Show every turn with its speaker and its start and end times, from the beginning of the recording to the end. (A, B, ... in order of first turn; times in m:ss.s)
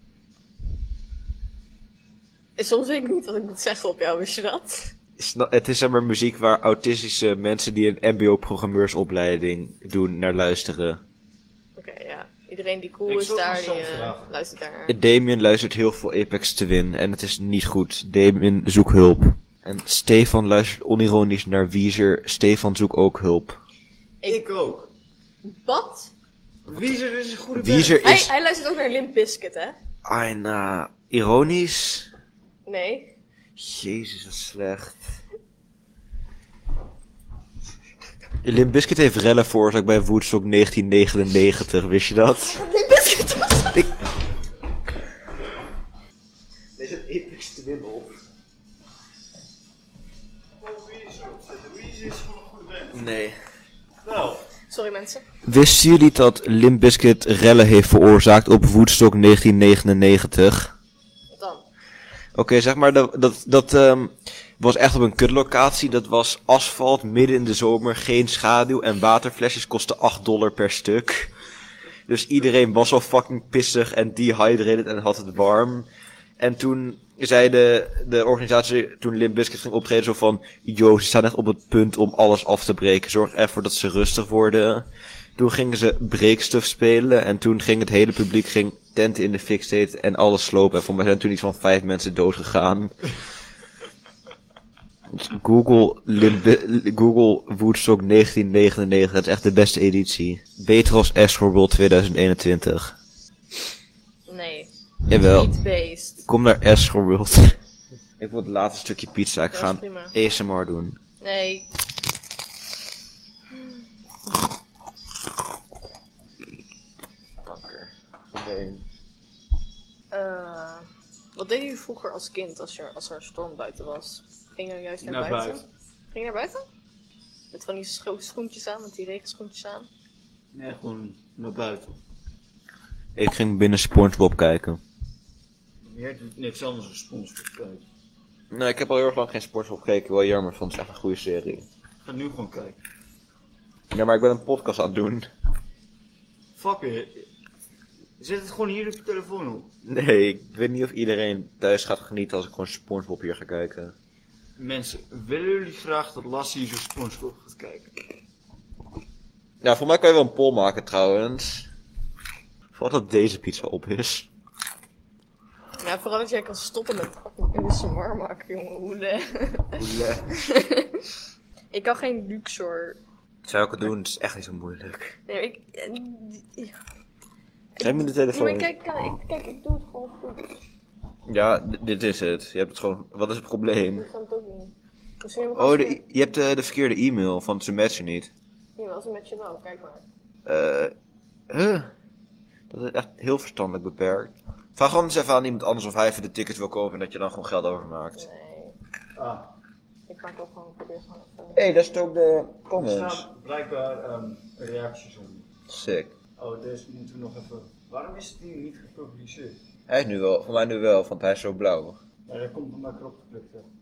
0:02.6-0:04.9 A
0:05.2-0:11.0 B
0:11.8-0:15.0 A
0:13.1-0:14.3 C
0:14.9-0:23.6 B
0:24.2-0:24.9 C
0:25.4-0:26.1 A
0:26.7-0:28.0 C
0:27.5-0:28.3 B
0:28.0-0:29.8 A
0:30.0-0:32.1 B
0:32.7-0:33.1 A
0:33.6-0:35.0 B
0:38.4-0:42.6 B
0:42.5-0:43.8 A
0:46.8-0:48.2 B
0:50.6-0:52.9 C
0:52.9-0:53.4 B
0:54.0-0:54.4 C
0:54.7-0:55.2 A
0:55.4-1:00.7 B
1:01.3-1:01.6 A
1:02.4-1:11.3 B
1:12.1-1:15.9 B
1:16.4-1:33.0 B
1:35.1-1:42.9 B
1:44.3-1:46.3 A
1:45.1-1:45.5 B
1:46.3-1:47.6 B
1:48.2-1:51.0 B
1:49.5-1:50.2 A
1:51.2-1:51.7 A
1:57.4-1:58.8 B
2:00.1-2:06.6 A
2:05.0-2:05.6 C
2:07.5-2:09.9 A
2:10.5-2:12.0 C
2:13.2-2:14.8 B
2:15.8-2:17.8 C
2:18.5-2:21.7 B
2:22.0-2:22.8 C
2:23.9-2:25.3 B
2:26.6-2:27.2 C
2:28.2-2:29.7 C
2:29.8-2:34.0 B
2:34.6-2:38.1 C
2:39.6-2:41.7 B
2:42.7-2:44.3 B
2:45.8-2:51.1 A
2:49.8-2:50.3 B
2:51.7-2:53.0 A
2:53.4-2:55.2 B
2:55.3-2:56.8 A
2:57.8-3:00.5 A
2:57.8-2:58.7 B
3:01.3-3:04.1 B
3:04.0-3:06.0 A
3:05.6-3:08.3 B
3:08.8-3:10.0 A
3:10.4-3:10.9 B
3:11.5-3:11.9 B
3:12.7-3:18.2 B
3:18.2-3:18.8 A
3:19.2-3:19.5 C
3:20.1-3:21.7 A
3:21.5-3:23.3 B
3:22.8-3:25.5 C
3:25.7-3:26.1 B
3:26.4-3:29.6 C
3:29.9-3:32.0 B
3:32.3-3:33.7 C